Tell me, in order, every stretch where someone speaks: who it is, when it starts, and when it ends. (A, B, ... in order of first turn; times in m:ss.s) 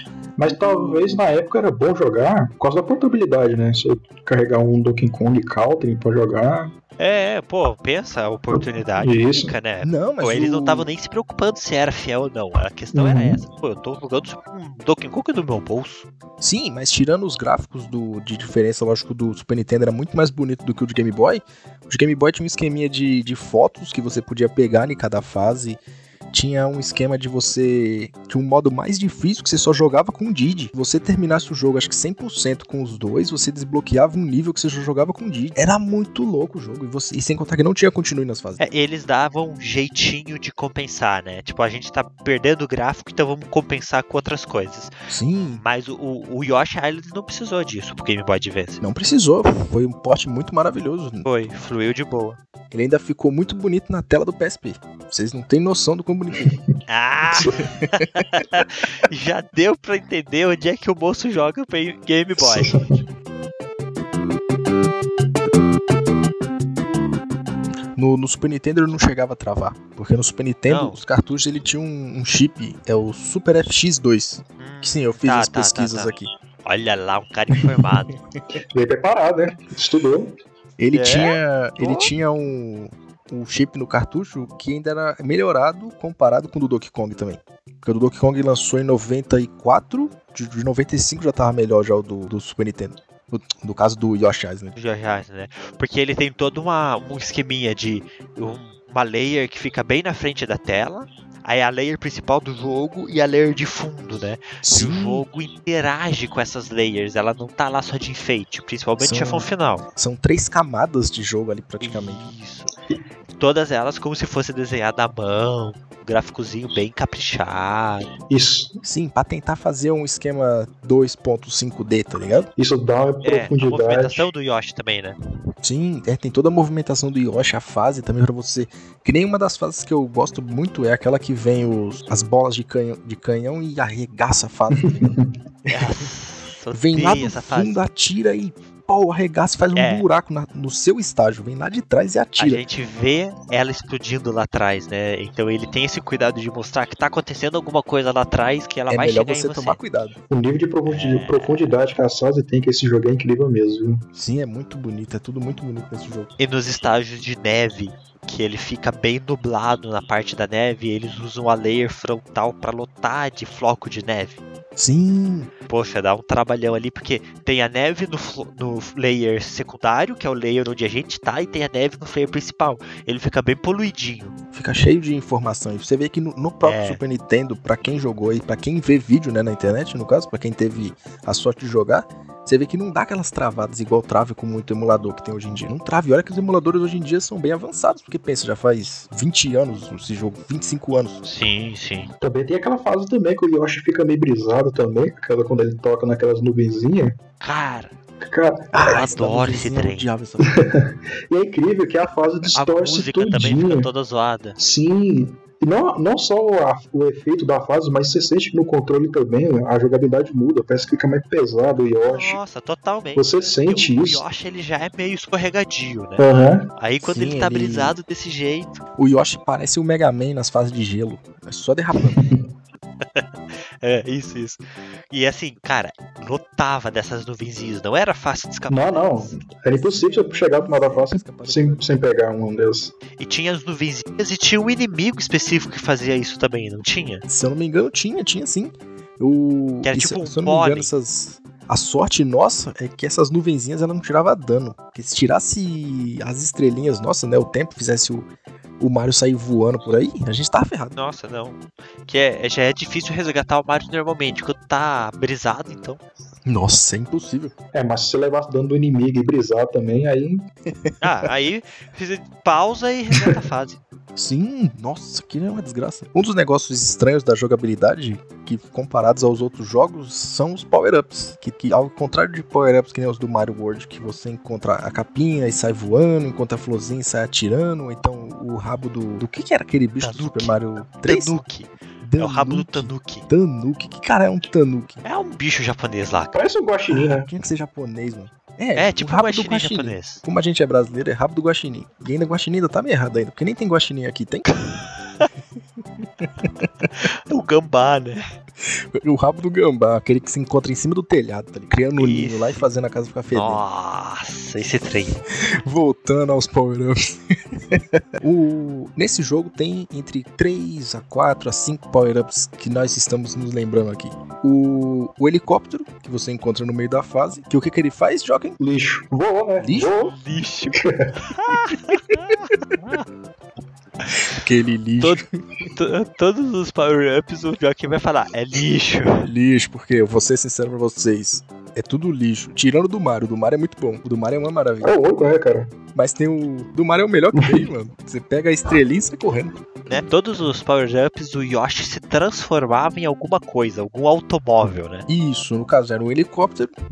0:00.4-0:06.7 A
0:00.4-0:01.2 B
0:07.0-0:16.1 C
0:08.5-0:09.5 A
0:09.8-0:10.9 B
0:12.9-0:13.4 A
0:16.4-0:25.8 B
0:26.3-0:38.6 B
0:38.6-0:44.9 C
0:45.1-0:45.6 B
0:45.5-0:48.8 C
0:48.8-0:51.3 B
0:51.2-0:52.4 C
0:52.7-0:56.5 B
0:56.9-1:02.7 C
0:57.3-0:57.6 A
0:57.8-0:58.4 B
1:02.4-1:03.0 A
1:07.9-1:16.3 B
1:10.7-1:11.0 C
1:14.6-1:16.1 C
1:16.6-1:18.2 C
1:18.7-1:20.3 A
1:20.8-1:34.7 B
1:20.9-1:22.1 C
1:34.7-1:49.8 C
1:44.6-1:45.2 B
1:49.0-1:52.3 B
1:51.8-1:52.7 C
1:53.4-1:58.1 C
1:58.3-1:58.8 A
1:58.8-2:02.5 B
2:02.6-2:04.3 A
2:03.2-2:05.2 C
2:05.6-2:15.1 B
2:14.8-2:15.3 A
2:15.7-2:17.8 C
2:16.7-2:22.6 B
2:19.7-2:20.0 C
2:22.4-2:29.8 C
2:28.9-2:30.2 B
2:30.3-2:34.0 A
2:30.8-2:31.7 C
2:34.1-2:36.3 B
2:36.4-2:44.4 C
2:44.8-2:45.5 B
2:45.7-2:54.3 C
2:54.5-3:11.2 B
2:56.6-2:57.0 C
3:11.2-3:12.1 C
3:12.2-3:17.2 A
3:17.4-3:17.9 C
3:18.2-3:19.1 A
3:18.7-3:20.5 B
3:18.8-3:20.1 C
3:20.4-3:23.9 A
3:22.5-3:24.6 C
3:24.6-3:32.4 A
3:32.1-3:38.8 C
3:33.2-3:34.2 A
3:36.2-3:36.7 A
3:37.0-3:38.0 B
3:39.0-3:42.3 B
3:42.0-3:42.4 A
3:43.0-3:49.4 C
3:48.7-3:52.9 A
3:49.7-3:52.0 B
3:53.2-3:57.2 C
3:57.3-4:10.9 B
3:59.8-4:00.9 C
4:10.9-4:16.0 C
4:16.4-4:17.5 B
4:17.7-4:20.4 A
4:20.7-4:21.3 B
4:21.0-4:23.8 C
4:24.1-4:41.4 B
4:40.0-4:43.3 C
4:42.0-4:45.0 B
4:45.0-4:46.4 C
4:46.3-4:47.3 A
4:46.9-4:54.5 B
4:48.8-4:50.2 C
4:54.5-4:55.3 C
4:56.0-4:56.9 B
4:56.8-4:58.2 C
4:58.6-5:03.6 B
5:02.0-5:02.7 C
5:03.3-5:05.2 C
5:05.6-5:07.0 B
5:07.5-5:18.6 B
5:18.6-5:20.2 A
5:19.6-5:19.9 B
5:20.0-5:20.8 C
5:20.8-5:21.1 A
5:21.3-5:23.0 C
5:24.0-5:24.4 C
5:24.3-5:25.2 B
5:25.0-5:29.3 C
5:29.2-5:34.9 B
5:34.8-5:35.7 A
5:35.9-5:39.6 B
5:37.4-5:37.7 A
5:39.9-5:45.1 C
5:45.1-5:46.7 B